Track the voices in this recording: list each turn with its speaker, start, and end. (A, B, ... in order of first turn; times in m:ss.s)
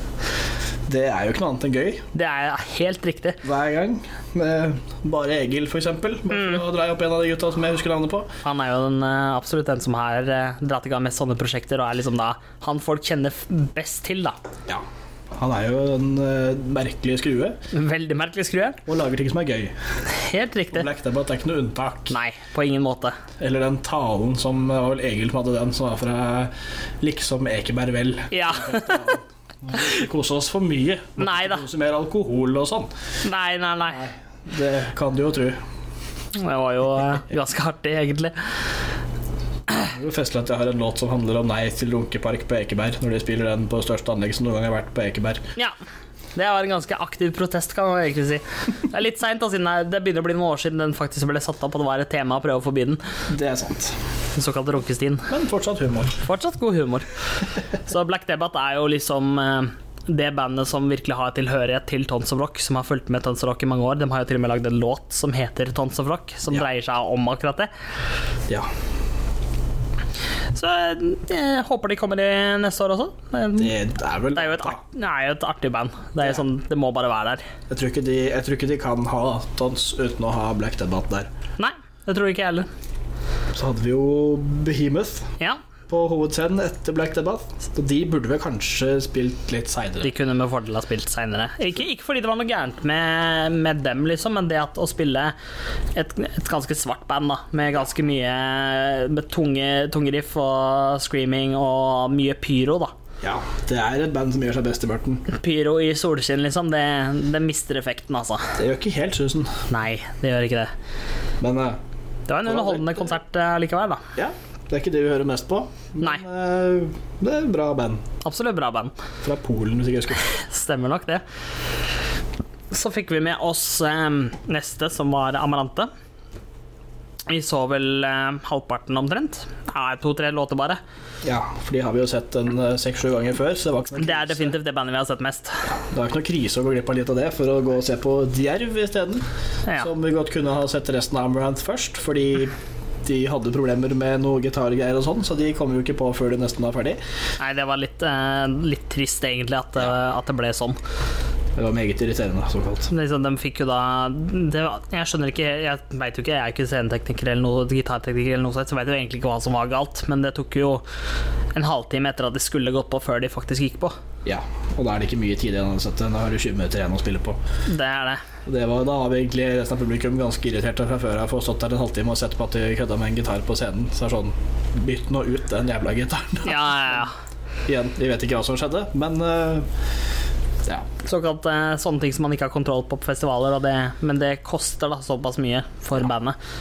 0:00.9-0:02.1 A
0:02.1-0:03.4 B
0:03.4-0:08.3 A
0:06.3-0:06.6 B
0:08.4-0:14.4 B
0:14.7-0:17.6 A
0:17.7-0:18.8 B
0:18.9-0:19.7 A
0:20.1-0:20.9 B
0:20.7-0:22.1 A
0:22.1-0:23.2 B
0:23.4-0:32.9 A
0:28.3-0:29.1 B
0:31.2-0:31.6 B
0:33.2-0:34.0 B
0:33.9-0:35.6 A
0:36.3-0:38.4 B
0:39.8-0:45.4 A
0:46.4-0:53.0 B
0:53.3-0:54.0 A
0:54.4-0:55.3 B
0:55.3-0:56.2 A
0:56.2-0:57.1 B
0:57.8-1:07.7 B
1:10.5-1:13.8 B
1:13.6-1:14.8 A
1:14.3-1:17.4 B
1:17.7-1:21.3 A
1:21.6-1:22.7 B
1:23.5-1:25.3 A
1:25.9-1:30.1 A
1:30.0-1:35.4 B
1:36.0-1:42.9 B
1:43.2-1:45.2 A
1:45.3-1:48.6 B
1:48.6-1:49.5 A
1:49.7-1:50.7 B
1:51.4-1:51.8 A
1:52.3-1:54.0 B
1:52.4-1:53.1 A
1:54.2-1:58.0 A
1:58.2-1:58.9 B
1:59.2-2:00.3 A
2:00.2-2:01.2 B
2:02.7-2:05.9 B
2:07.3-2:10.8 B
2:11.2-2:14.6 A
2:14.0-2:15.7 B
2:15.9-2:19.3 A
2:19.8-2:27.0 A
2:27.4-2:30.8 B
2:31.6-2:32.9 A
2:32.9-2:40.8 B
2:41.5-2:43.9 B
2:44.2-2:47.4 A
2:47.7-2:48.2 B
2:48.4-2:57.0 A
2:56.4-2:57.1 B
2:57.7-2:59.7 A
3:01.0-3:06.4 B